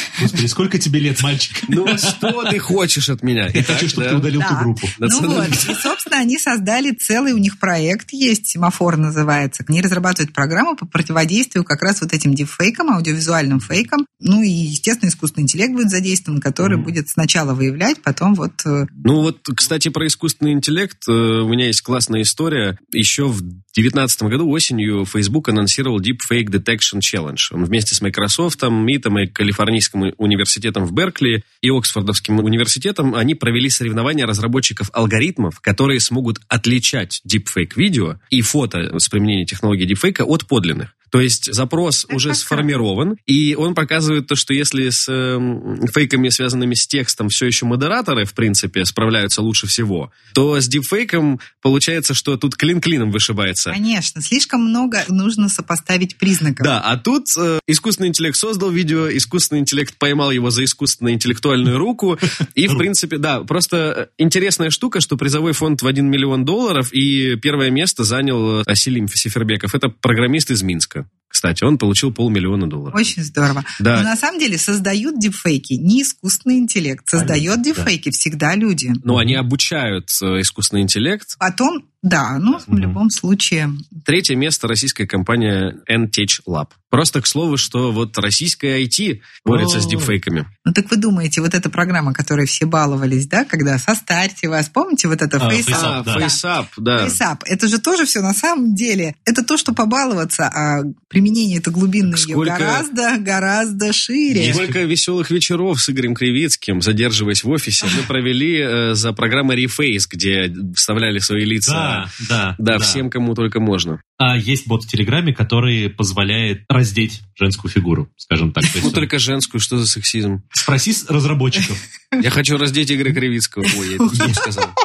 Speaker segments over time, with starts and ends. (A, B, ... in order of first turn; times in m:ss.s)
0:00.2-0:02.3 A
0:01.7-0:04.3 B
0:03.5-0:05.6 A
0:04.4-0:18.9 C
0:05.0-0:05.8 B
0:16.6-0:16.9 B
0:19.0-0:53.8 B
0:42.1-0:42.7 C
0:53.7-0:56.7 C
0:56.6-1:13.1 B
1:12.9-1:19.0 C
1:13.8-1:14.1 B
1:17.1-1:17.9 A
1:19.0-1:21.3 B
1:19.1-1:19.4 A
1:21.4-1:23.8 C
1:22.6-1:23.0 A
1:24.0-1:30.5 B
1:29.4-1:30.1 A
1:30.6-1:36.4 C
1:35.4-1:36.3 A
1:35.7-1:37.2 B
1:36.9-1:44.6 C
1:42.1-1:42.8 B
1:44.3-1:44.8 A
1:44.4-1:54.0 B
1:51.6-1:53.0 A
1:54.2-1:59.1 A
1:58.6-2:00.5 B
2:00.5-2:01.8 A
2:02.2-2:04.7 B
2:04.2-2:04.4 A